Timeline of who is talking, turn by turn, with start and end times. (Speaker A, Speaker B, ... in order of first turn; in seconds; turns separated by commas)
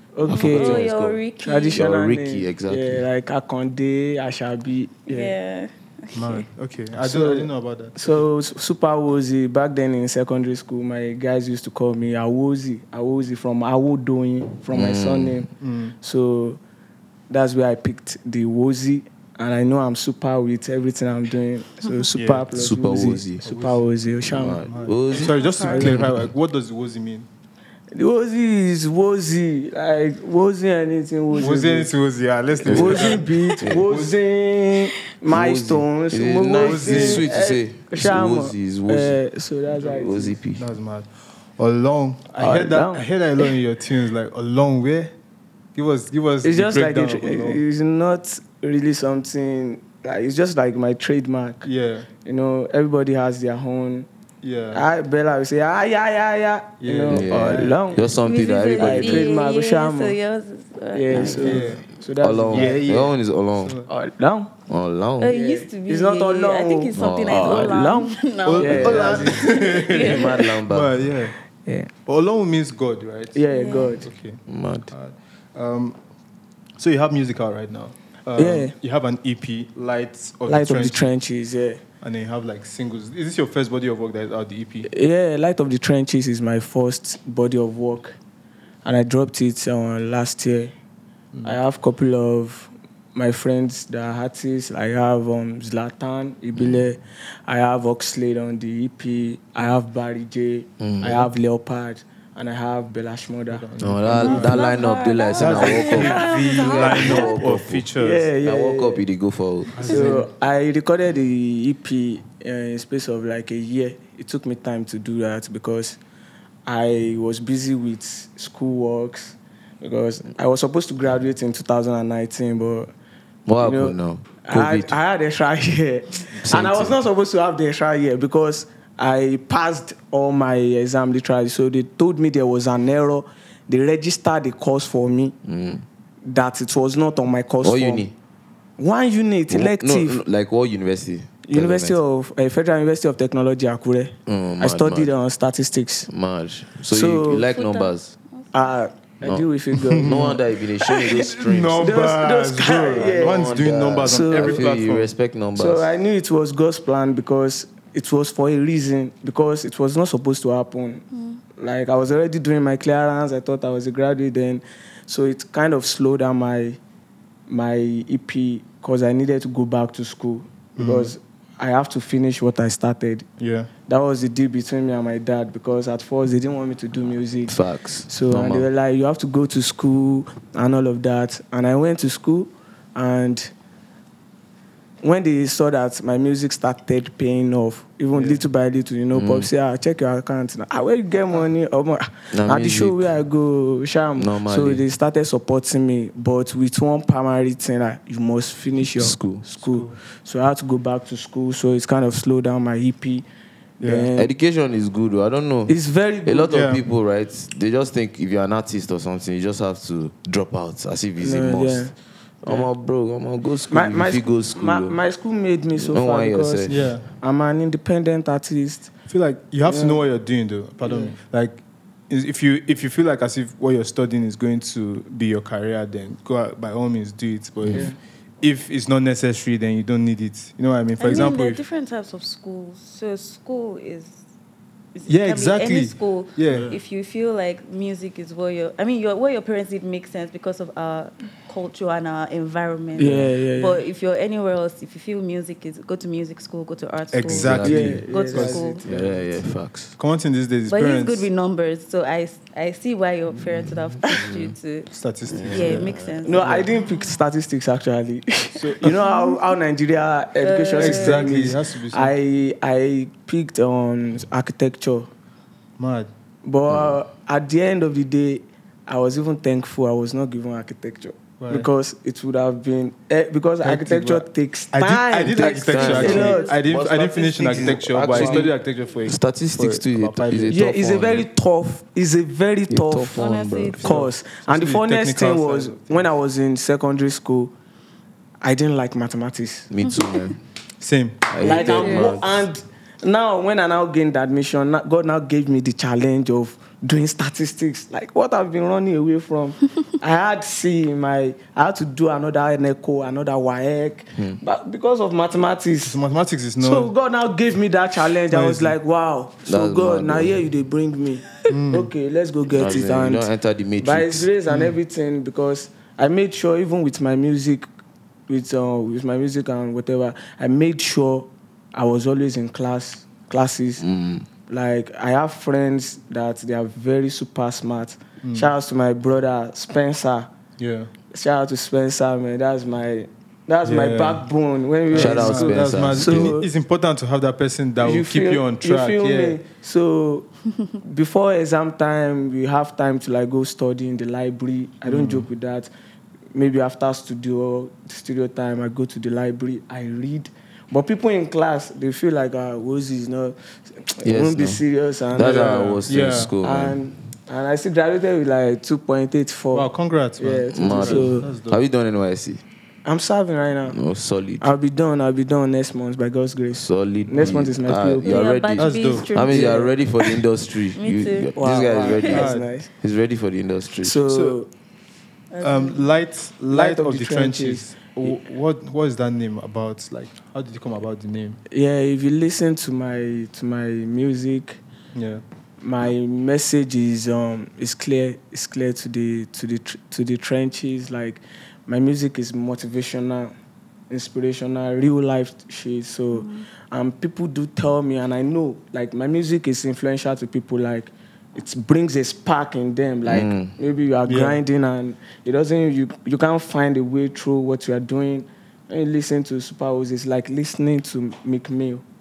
Speaker A: 0.1-0.9, Speaker B: 0.2-1.2, Speaker C: 0.2-1.8, Speaker A: 1.4-5.3, Speaker B: 1.8-3.0, Speaker C: 5.1-6.4, Speaker D: 6.1-8.1, Speaker A: 7.0-15.5, Speaker B: 14.7-15.4, Speaker D: 15.6-15.9, Speaker A: 16.0-16.6, Speaker A: 17.3-24.6, Speaker D: 22.1-22.5, Speaker B: 22.5-23.5, Speaker D: 23.4-23.8, Speaker B: 24.3-26.1, Speaker D: 24.6-27.3, Speaker C: 25.2-26.0, Speaker A: 25.7-26.0, Speaker A: 27.9-31.9, Speaker D: 31.4-34.1, Speaker A: 32.6-40.4, Speaker B: 32.6-33.9, Speaker B: 35.3-39.2, Speaker D: 36.6-37.3, Speaker B: 39.8-40.6, Speaker D: 40.6-45.1, Speaker A: 42.4-43.0, Speaker D: 45.8-47.6, Speaker A: 46.4-51.6, Speaker D: 51.6-52.1, Speaker A: 52.2-54.1, Speaker D: 54.4-54.8, Speaker A: 54.7-58.0, Speaker D: 56.8-58.0, Speaker B: 57.1-59.3, Speaker C: 58.2-61.7, Speaker A: 58.7-60.1, Speaker A: 60.9-62.8, Speaker D: 61.1-61.8, Speaker B: 61.2-63.8, Speaker D: 62.5-63.9, Speaker A: 63.9-64.5, Speaker B: 64.7-65.3, Speaker C: 65.2-70.5, Speaker A: 65.3-69.3, Speaker B: 66.9-68.0, Speaker D: 68.4-71.3, Speaker B: 68.7-71.1, Speaker A: 71.7-71.9, Speaker D: 72.0-76.0, Speaker A: 73.3-74.1, Speaker C: 73.5-74.0, Speaker B: 74.5-74.9, Speaker D: 76.8-81.1, Speaker A: 78.4-78.7, Speaker A: 80.5-81.8, Speaker D: 82.0-84.9, Speaker A: 84.8-88.2, Speaker A: 88.8-90.7, Speaker D: 91.3-91.6, Speaker A: 91.4-103.7, Speaker B: 96.6-96.8, Speaker B: 100.8-101.3, Speaker D: 103.5-104.8, Speaker B: 103.8-110.0, Speaker C: 104.1-107.5, Speaker D: 105.4-108.3, Speaker A: 105.8-107.1, Speaker A: 108.0-109.0, Speaker D: 109.7-110.3, Speaker A: 109.8-116.0, Speaker A: 116.7-122.9, Speaker B: 123.5-124.9, Speaker A: 123.6-135.3, Speaker B: 126.4-127.0, Speaker B: 135.4-135.8, Speaker A: 136.3-138.1, Speaker B: 137.6-138.1, Speaker A: 138.8-140.2, Speaker B: 139.5-142.0, Speaker A: 141.4-146.1, Speaker B: 144.2-145.1, Speaker B: 146.1-148.2, Speaker A: 146.9-147.4, Speaker C: 147.5-148.5, Speaker A: 148.5-150.4, Speaker D: 149.8-150.4, Speaker B: 150.0-151.9, Speaker D: 151.0-155.1, Speaker A: 151.8-153.5, Speaker B: 152.9-155.8, Speaker A: 154.0-154.6, Speaker A: 155.5-161.0, Speaker A: 161.6-166.8, Speaker A: 167.5-173.2, Speaker D: 170.8-171.1, Speaker D: 173.4-173.7, Speaker A: 173.9-183.5, Speaker B: 177.5-178.7, Speaker A: 185.0-203.2, Speaker D: 188.1-188.4, Speaker B: 189.1-189.5, Speaker B: 192.3-193.1, Speaker B: 194.2-194.8, Speaker B: 198.9-199.4, Speaker D: 199.6-199.9, Speaker D: 203.8-204.1, Speaker A: 203.8-204.3, Speaker B: 204.2-215.0, Speaker A: 205.7-206.7, Speaker D: 206.5-206.8, Speaker A: 211.2-211.9, Speaker A: 213.7-218.9, Speaker B: 215.8-216.8, Speaker D: 216.7-217.0, Speaker D: 219.1-231.6, Speaker A: 219.7-220.0, Speaker A: 220.8-221.1, Speaker B: 227.6-227.9, Speaker C: 231.0-234.2, Speaker C: 234.9-248.8, Speaker D: 235.1-236.8, Speaker A: 243.0-243.8, Speaker D: 247.1-248.8, Speaker B: 247.3-248.0, Speaker A: 247.6-249.4, Speaker B: 248.8-249.9, Speaker D: 250.0-251.3, Speaker C: 250.7-257.1, Speaker B: 253.4-254.6, Speaker D: 254.9-256.7, Speaker B: 255.3-256.4, Speaker A: 256.2-265.1, Speaker D: 258.5-259.1, Speaker C: 259.0-259.4, Speaker C: 260.4-261.3, Speaker D: 260.8-262.1, Speaker D: 265.8-266.1, Speaker A: 266.4-276.5, Speaker B: 266.7-267.0, Speaker D: 271.4-271.7, Speaker D: 273.6-280.6, Speaker B: 275.6-278.5, Speaker C: 275.8-276.5, Speaker A: 277.5-278.5, Speaker B: 279.0-281.2, Speaker A: 280.5-283.2, Speaker B: 282.7-283.9, Speaker C: 283.1-284.1, Speaker D: 283.7-286.1, Speaker A: 283.8-287.5, Speaker A: 288.4-289.7, Speaker B: 289.7-290.4, Speaker D: 290.8-291.3, Speaker B: 291.3-292.5, Speaker A: 291.4-306.0, Speaker C: 291.4-292.2, Speaker D: 305.8-306.9, Speaker A: 306.6-313.3, Speaker D: 308.3-308.8, Speaker B: 309.4-310.4, Speaker D: 311.5-311.9, Speaker B: 312.5-314.3, Speaker A: 313.8-317.7, Speaker D: 314.5-314.7, Speaker A: 318.3-323.9, Speaker B: 323.8-324.3, Speaker A: 324.5-330.3, Speaker D: 328.2-328.5, Speaker D: 330.6-330.9, Speaker A: 331.1-336.5, Speaker D: 333.6-334.2, Speaker D: 334.9-339.4, Speaker B: 334.9-336.4, Speaker A: 337.8-340.3, Speaker A: 340.8-345.7, Speaker D: 344.9-345.3, Speaker A: 346.3-355.9, Speaker B: 354.0-356.8, Speaker D: 355.9-356.3, Speaker A: 356.4-361.3, Speaker D: 359.5-361.6, Speaker B: 360.5-362.4, Speaker A: 362.9-363.8, Speaker B: 363.7-364.5, Speaker A: 364.4-368.2, Speaker B: 366.6-374.0, Speaker C: 368.0-369.7, Speaker D: 368.5-369.4, Speaker A: 369.3-369.7, Speaker C: 370.8-372.2, Speaker A: 371.4-372.7, Speaker D: 372.1-372.5, Speaker A: 373.8-374.5, Speaker D: 374.1-374.4, Speaker C: 375.3-375.8, Speaker D: 375.4-381.4, Speaker A: 376.5-378.1, Speaker A: 381.5-384.6, Speaker D: 384.9-385.2, Speaker A: 385.6-393.3, Speaker A: 393.9-411.8, Speaker C: 396.1-396.4, Speaker B: 403.1-403.5, Speaker D: 404.1-404.4